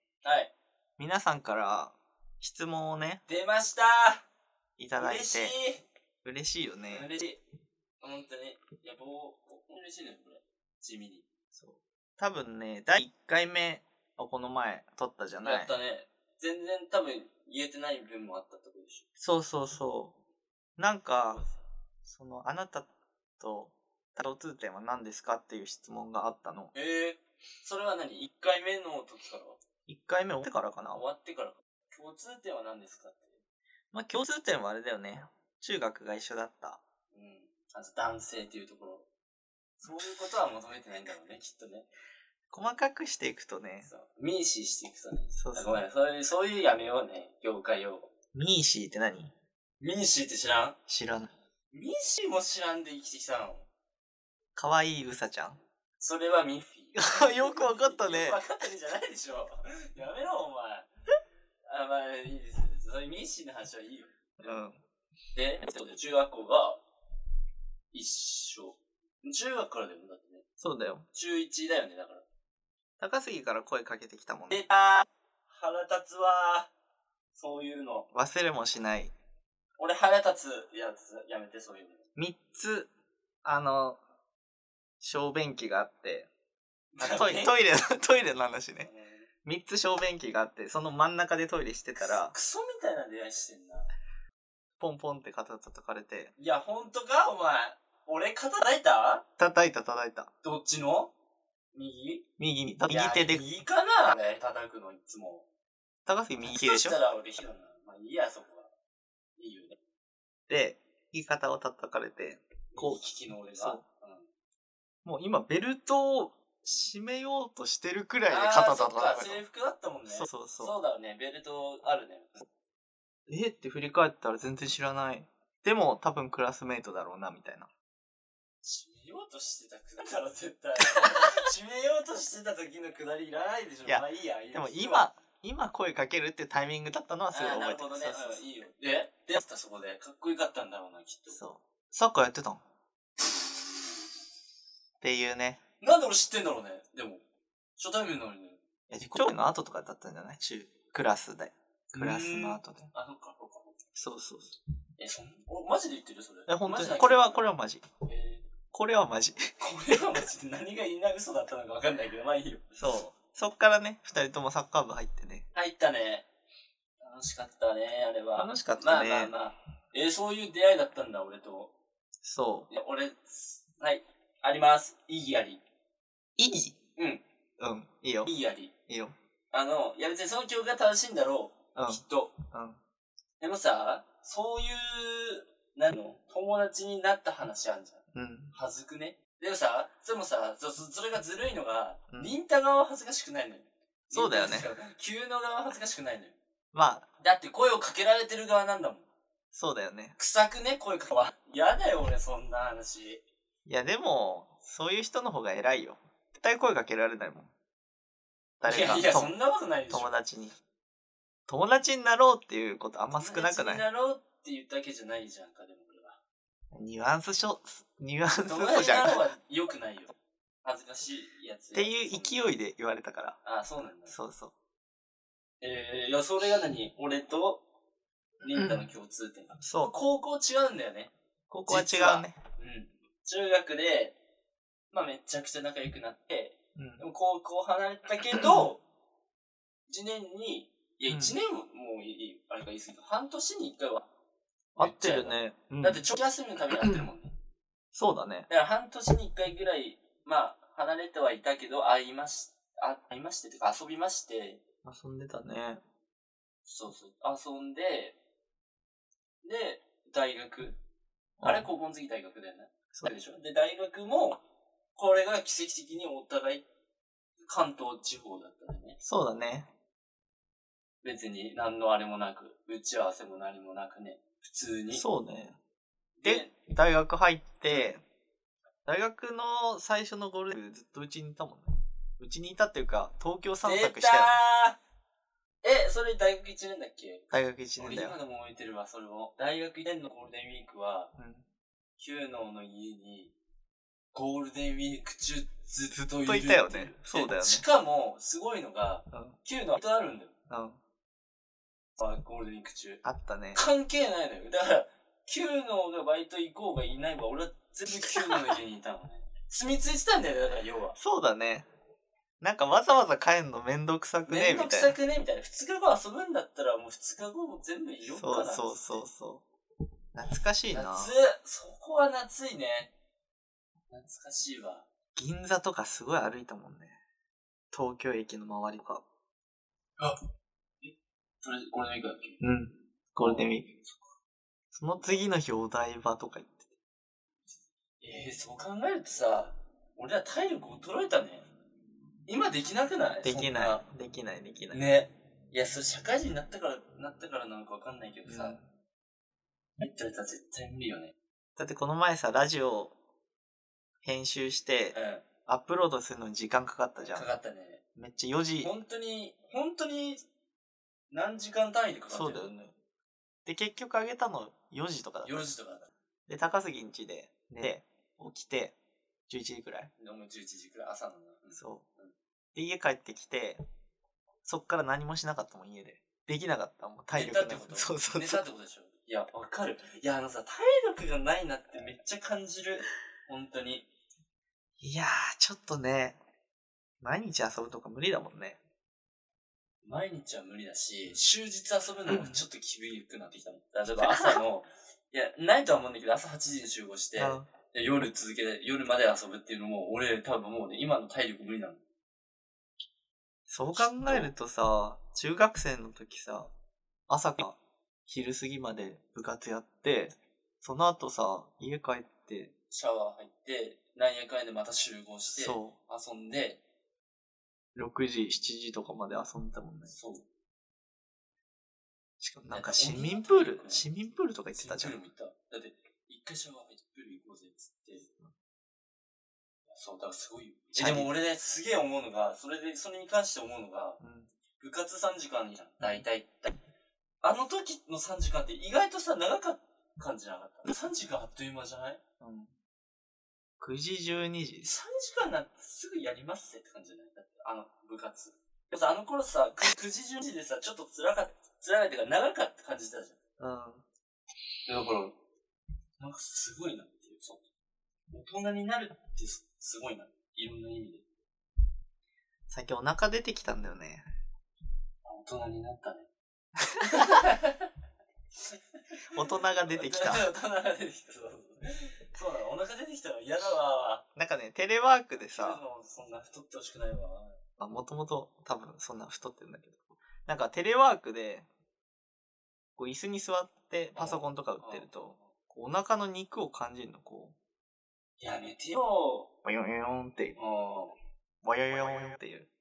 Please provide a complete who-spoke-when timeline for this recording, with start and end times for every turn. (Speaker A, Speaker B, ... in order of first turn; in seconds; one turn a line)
Speaker A: 0.2-0.5
Speaker B: 1.0-3.2
Speaker A: 3.3-4.2
Speaker B: 4.8-5.6
Speaker A: 5.0-5.9
Speaker B: 6.2-7.1
Speaker A: 6.9-7.4
Speaker A: 8.0-11.2
Speaker B: 11.5-15.7
Speaker A: 15.4-19.1
Speaker B: 19.2-20.1
Speaker B: 20.8-21.5
Speaker A: 21.3-21.6
Speaker B: 22.1-22.9
Speaker B: 23.4-26.7
Speaker A: 26.7-29.6
Speaker B: 29.9-31.0
Speaker A: 30.9-33.4
Speaker B: 33.9-36.8
Speaker A: 37.1-39.1
Speaker A: 39.8-41.9
Speaker B: 42.5-43.9
Speaker A: 43.8-48.1
Speaker B: 45.3-45.8
Speaker B: 48.3-49.3
Speaker A: 49.8-50.8
Speaker B: 50.9-51.3
Speaker A: 51.7-53.7
Speaker B: 54.6-55.6
Speaker A: 56.0-60.9
Speaker B: 56.9-58.4
Speaker A: 61.7-64.7
Speaker B: 64.4-64.8
Speaker A: 65.3-66.8
Speaker A: 67.9-70.5
Speaker B: 70.6-71.1
Speaker A: 71.1-72.2
Speaker B: 73.0-74.7
Speaker A: 74.5-76.7
Speaker A: 77.3-78.1
Speaker B: 78.1-79.1
Speaker A: 79.8-82.0
Speaker B: 82.2-82.9
Speaker B: 83.4-84.0
Speaker B: 85.0-86.3
Speaker A: 87.0-87.6
Speaker B: 87.0-88.9
Speaker A: 88.8-89.3
Speaker B: 89.5-92.3
Speaker A: 92.0-93.9
Speaker B: 94.8-96.3
Speaker A: 96.4-99.2
Speaker B: 99.4-100.3
Speaker A: 100.4-101.1
Speaker A: 101.7-102.3
Speaker B: 102.4-103.5
Speaker A: 102.9-105.5
Speaker B: 106.1-107.0
Speaker A: 106.4-108.7
Speaker A: 109.4-109.8
Speaker B: 110.5-113.0
Speaker A: 112.7-114.3
Speaker B: 113.6-113.8
Speaker B: 115.0-119.4
Speaker A: 118.3-122.5
Speaker B: 120.1-120.8
Speaker B: 123.3-127.7
Speaker A: 128.6-135.1
Speaker B: 133.9-138.4
Speaker A: 137.3-141.4
Speaker B: 141.4-142.6
Speaker A: 143.2-143.6
Speaker B: 145.0-145.6
Speaker A: 145.8-147.2
Speaker A: 147.8-148.6
Speaker B: 148.9-152.9
Speaker A: 151.9-153.8
Speaker B: 154.0-154.6
Speaker A: 155.0-157.4
Speaker B: 156.5-157.8
Speaker A: 158.1-158.4
Speaker B: 158.7-160.0
Speaker A: 159.6-162.8
Speaker B: 162.8-165.5
Speaker A: 165.5-166.3
Speaker A: 167.0-171.7
Speaker B: 168.4-169.3
Speaker B: 172.2-172.7
Speaker A: 172.7-175.6
Speaker B: 176.4-176.8
Speaker A: 177.0-177.2
Speaker B: 177.6-178.3
Speaker A: 178.2-178.7
Speaker B: 178.9-179.2
Speaker A: 179.5-182.4
Speaker B: 181.8-182.8
Speaker A: 183.4-188.0
Speaker B: 188.1-188.5
Speaker A: 188.5-196.4
Speaker B: 194.1-194.7
Speaker B: 196.7-197.1
Speaker A: 197.2-199.1
Speaker B: 199.5-200.2
Speaker A: 200.2-203.2
Speaker B: 203.7-207.5
Speaker B: 208.6-209.3
Speaker A: 208.7-210.1
Speaker B: 209.9-210.6
Speaker B: 211.5-213.8
Speaker A: 213.1-216.2
Speaker B: 216.7-219.2
Speaker A: 218.5-220.1
Speaker A: 220.6-222.5
Speaker B: 221.7-223.4
Speaker A: 223.4-224.2
Speaker B: 224.1-224.5
Speaker A: 225.6-227.6
Speaker A: 228.4-231.1
Speaker B: 228.6-228.8
Speaker B: 229.6-230.0
Speaker B: 231.5-232.4
Speaker A: 231.7-234.2
Speaker A: 234.9-238.8
Speaker B: 236.8-237.0
Speaker A: 239.9-244.1
Speaker B: 241.1-241.4
Speaker B: 244.8-246.0
Speaker A: 244.8-247.3
Speaker B: 246.8-247.1
Speaker B: 247.9-248.5
Speaker A: 248.5-254.6
Speaker B: 254.8-255.8
Speaker A: 256.6-258.2
Speaker A: 259.4-260.8
Speaker B: 261.4-261.7
Speaker A: 261.4-264.4
Speaker A: 264.9-266.7
Speaker A: 267.5-269.0
Speaker B: 269.0-269.7
Speaker A: 271.0-275.0
Speaker B: 274.9-275.6
Speaker A: 276.2-276.5
Speaker B: 276.2-278.0
Speaker A: 277.7-278.0
Speaker B: 278.9-284.4
Speaker A: 283.6-284.8
Speaker A: 285.6-287.2
Speaker B: 287.3-288.2
Speaker A: 287.8-291.1
Speaker B: 291.2-291.4
Speaker A: 292.0-293.3
Speaker A: 294.1-300.3
Speaker B: 295.9-297.6
Speaker B: 300.5-300.8
Speaker A: 302.0-311.0
Speaker B: 303.0-303.6
Speaker B: 311.0-311.7
Speaker B: 312.4-314.9
Speaker A: 314.3-319.0
Speaker B: 318.1-319.4
Speaker B: 320.1-321.1
Speaker A: 320.7-322.9
Speaker A: 323.9-324.9
Speaker B: 325.1-327.0
Speaker B: 327.7-329.0
Speaker A: 330.8-332.4
Speaker B: 332.4-333.7
Speaker A: 333.2-334.1
Speaker B: 334.7-336.7
Speaker A: 335.0-335.2
Speaker A: 338.0-341.5
Speaker A: 342.3-343.9
Speaker B: 343.2-344.8
Speaker A: 344.7-348.6
Speaker B: 348.3-348.7
Speaker A: 349.8-351.1
Speaker B: 351.6-352.9
Speaker B: 354.0-354.9
Speaker A: 354.9-355.2
Speaker B: 355.5-357.3
Speaker A: 357.0-357.8
Speaker B: 358.0-358.7
Speaker A: 358.6-360.2
Speaker A: 361.1-362.6
Speaker B: 362.1-362.7
Speaker B: 363.5-365.5
Speaker A: 365.2-365.9
Speaker B: 366.3-368.8
Speaker B: 369.3-369.9
Speaker A: 370.0-372.1
Speaker B: 371.6-371.8
Speaker B: 372.6-373.6
Speaker B: 374.4-378.4
Speaker A: 377.1-383.9
Speaker B: 384.8-386.2
Speaker B: 387.0-388.6
Speaker A: 389.8-401.8
Speaker B: 392.1-392.4
Speaker B: 393.9-394.4
Speaker B: 397.2-397.5
Speaker B: 403.5-406.5
Speaker A: 403.7-404.3
Speaker B: 407.1-412.5
Speaker A: 412.7-416.6
Speaker B: 415.4-415.8
Speaker B: 417.8-419.9
Speaker A: 419.9-420.3
Speaker B: 422.2-425.0
Speaker A: 422.5-423.9
Speaker A: 424.5-428.1
Speaker A: 429.7-434.0
Speaker B: 430.8-431.1
Speaker B: 434.0-434.3
Speaker A: 434.6-436.6
Speaker A: 437.2-442.0
Speaker B: 442.2-442.5
Speaker B: 443.6-444.7
Speaker A: 444.6-453.2
Speaker B: 453.4-453.8
Speaker A: 454.7-455.2
Speaker A: 456.0-457.4
Speaker A: 458.1-461.0
Speaker B: 462.5-464.0
Speaker A: 465.1-466.1
Speaker A: 466.9-467.6
Speaker B: 469.1-470.3
Speaker A: 469.3-474.1
Speaker B: 474.2-475.6
Speaker A: 475.3-477.4
Speaker B: 477.6-481.5
Speaker B: 482.8-487.4
Speaker A: 483.9-485.4
Speaker A: 488.2-489.3
Speaker B: 489.4-490.4
Speaker A: 490.4-490.9
Speaker B: 491.4-492.5